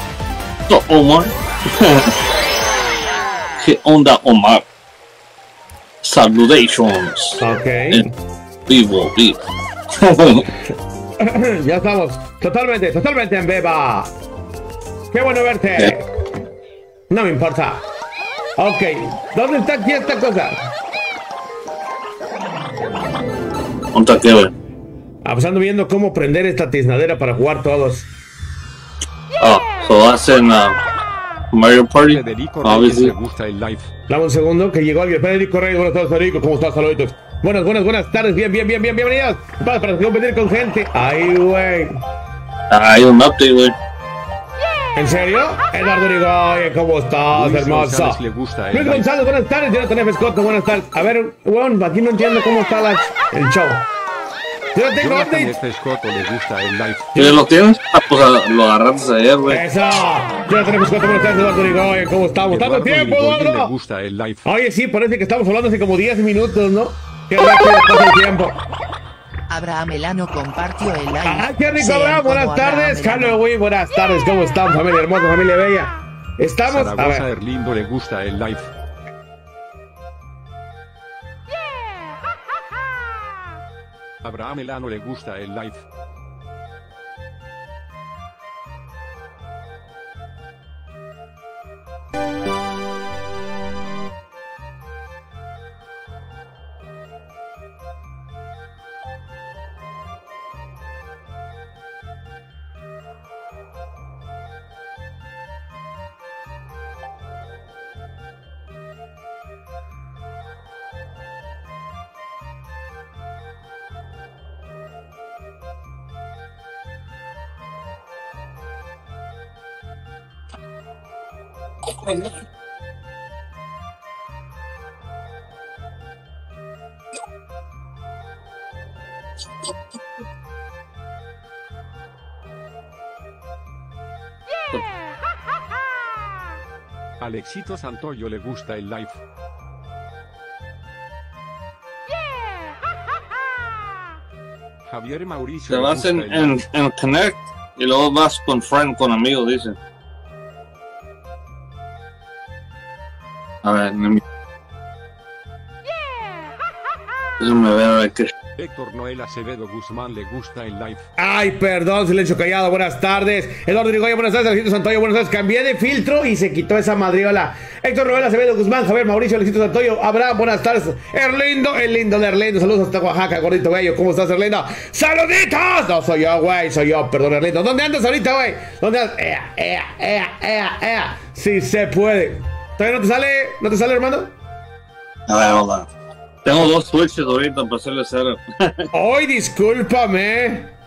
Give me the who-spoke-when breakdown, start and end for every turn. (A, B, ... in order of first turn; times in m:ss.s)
0:00.7-0:02.2 A
0:03.6-0:04.6 A
0:06.0-0:08.0 A
0:07.4-0:08.1 B
0:08.7-0:09.4 A
0:09.9-0:10.5 A
0:11.2-0:14.1 B
0:15.1-0:16.0 B
0:17.1-0:17.8 B
0:18.6-0:20.7 B
0:23.9-0:24.5 A
0:25.2-0:28.1 B
0:29.4-0:30.8 A
0:31.5-0:33.1 A
0:32.0-0:33.9 C
0:34.1-0:42.0 B
0:42.7-0:43.8 A
0:45.0-0:53.8 B
0:47.3-0:49.2 C
0:54.8-0:55.6 B
0:55.0-0:57.4 C
0:57.2-0:59.6 A
0:59.5-1:03.7 B
1:02.5-1:04.5 C
1:04.4-1:08.6 B
1:09.5-1:13.4 D
1:11.2-1:17.3 B
1:16.6-1:18.7 C
1:24.2-1:25.8 C
2:17.2-2:19.2 C
2:24.9-2:26.6 C
2:25.7-2:29.8 A
2:33.6-2:34.2 A
2:37.4-2:38.3 A
2:38.6-2:41.1 C
2:41.2-3:04.3 B
3:05.3-3:05.9 A
3:06.4-3:08.9 A
3:08.9-3:10.7 B